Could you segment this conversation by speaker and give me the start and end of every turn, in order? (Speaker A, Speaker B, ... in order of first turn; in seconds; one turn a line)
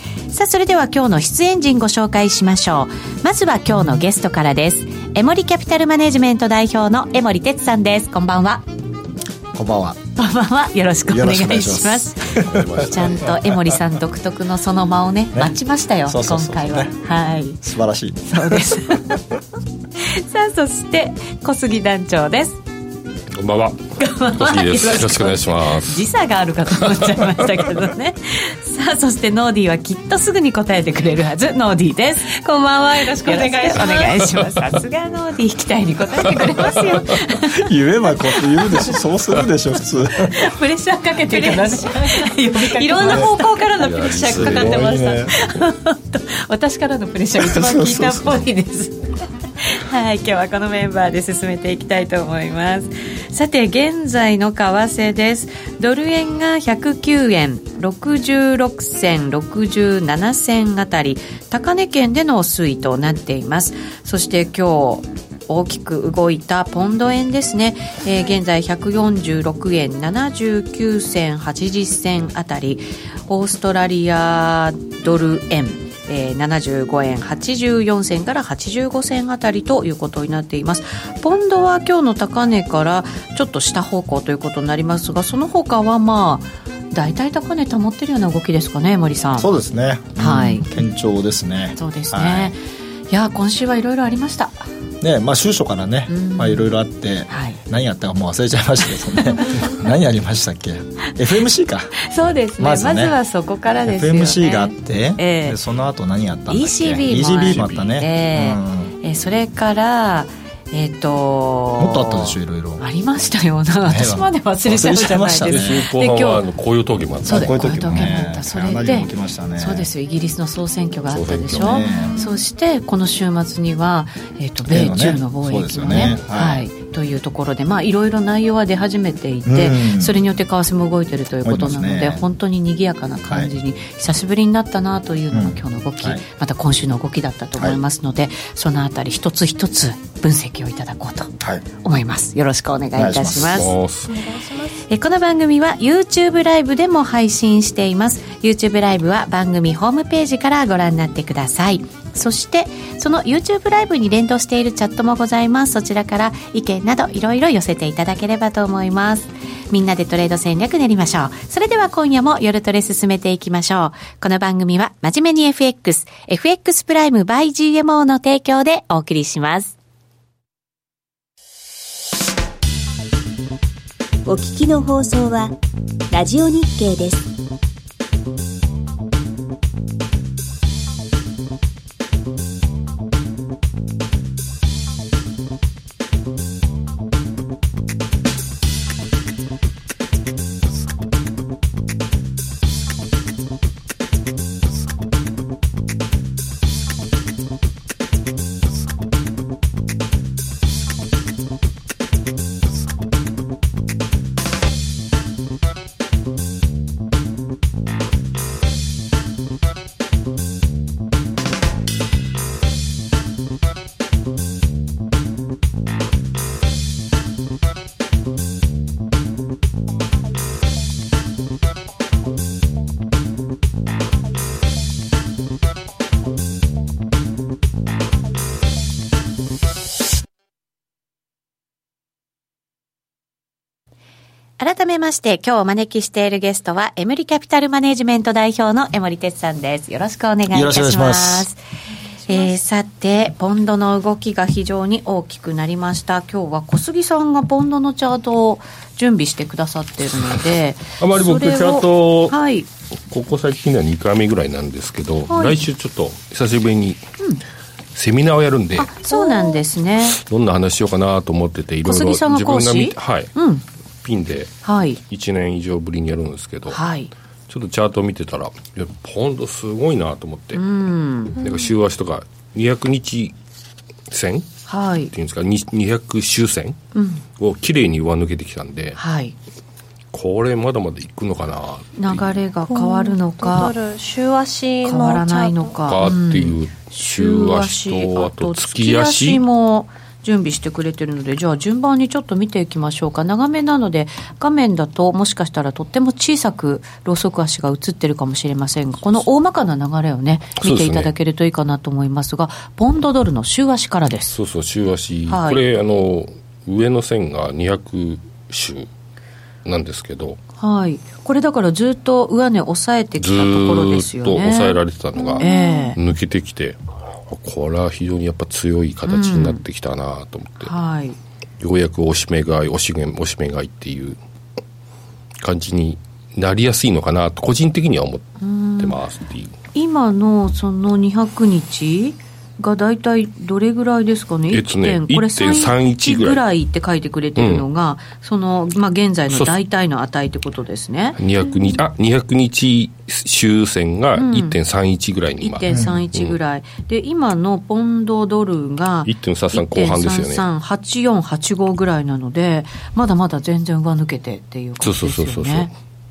Speaker A: 0.3-8.7
Speaker B: 9.5-10.0
Speaker A: 10.2-17.6
Speaker B: 11.1-13.8
Speaker C: 12.4-13.4
Speaker B: 15.3-16.9
Speaker B: 17.6-19.2
Speaker A: 18.3-19.2
Speaker A: 20.0-22.6
Speaker C: 23.3-26.1
Speaker A: 24.0-37.7
Speaker C: 26.8-27.3
Speaker D: 32.9-34.2
Speaker B: 37.4-40.5
Speaker A: 38.2-39.0
Speaker A: 40.2-43.9
Speaker D: 41.2-45.3
Speaker B: 43.0-43.3
Speaker C: 43.8-45.0
Speaker B: 44.3-45.4
Speaker A: 45.3-49.0
Speaker B: 47.4-48.4
Speaker A: 49.6-89.5
Speaker B: 89.4-92.6
Speaker A: 90.2-90.7
Speaker A: 91.8-94.7
Speaker B: 95.0-103.2
Speaker A: 96.1-96.7
Speaker A: 97.3-97.6
Speaker A: 99.2-99.7
Speaker A: 102.0-105.6
Speaker B: 103.8-108.9
Speaker A: 106.5-116.4
Speaker C: 107.4-107.9
Speaker B: 111.8-112.8
Speaker B: 113.8-115.8
Speaker C: 115.4-117.8
Speaker B: 117.2-119.9
Speaker A: 117.2-143.7
Speaker C: 121.1-121.9
Speaker B: 121.6-122.2
Speaker D: 122.0-122.3
Speaker B: 124.7-126.7
Speaker C: 125.9-126.2
Speaker B: 129.4-130.2
Speaker B: 131.4-132.2
Speaker B: 135.3-136.2
Speaker B: 137.6-137.8
Speaker B: 141.4-141.7
Speaker B: 142.9-143.7
Speaker C: 143.4-144.2
Speaker D: 144.1-144.8
Speaker A: 144.9-169.8
Speaker E: 174.3-175.6
Speaker E: 176.1-177.3
Speaker A: 234.6-241.6
Speaker B: 240.5-241.5
Speaker D: 242.2-242.6
Speaker A: 242.3-252.7
Speaker C: 251.0-252.4
Speaker C: 253.1-257.1
Speaker A: 255.3-255.6
Speaker C: 257.9-258.9
Speaker A: 258.8-260.2
Speaker D: 259.1-259.5
Speaker C: 260.1-263.3
Speaker A: 261.9-263.6
Speaker C: 264.0-264.6
Speaker A: 264.6-265.0
Speaker C: 265.1-266.8
Speaker A: 266.7-267.1
Speaker C: 267.5-270.6
Speaker A: 270.5-271.4
Speaker C: 271.3-273.4
Speaker D: 271.4-271.7
Speaker C: 274.1-274.5
Speaker A: 274.7-275.1
Speaker C: 275.1-276.8
Speaker A: 276.9-277.2
Speaker C: 277.4-279.0
Speaker A: 279.0-279.4
Speaker C: 280.1-282.4
Speaker A: 282.0-283.8
Speaker D: 282.7-285.8
Speaker A: 284.8-304.3
Speaker C: 285.9-289.4
Speaker C: 300.6-301.1
Speaker C: 304.3-308.9
Speaker A: 305.3-305.6
Speaker C: 309.6-310.4
Speaker A: 310.6-314.8
Speaker C: 313.2-320.7
Speaker D: 315.2-315.9
Speaker A: 315.4-316.0
Speaker A: 319.1-319.6
Speaker A: 320.6-321.2
Speaker C: 321.6-324.2
Speaker C: 325.4-329.6
Speaker A: 328.4-329.0
Speaker A: 329.7-341.2
Speaker C: 334.5-336.4
Speaker C: 337.4-337.6
Speaker C: 339.3-339.6
Speaker C: 341.2-346.4
Speaker A: 344.1-344.6
Speaker A: 345.4-355.7
Speaker B: 345.7-346.1
Speaker C: 349.1-350.4
Speaker C: 354.8-355.7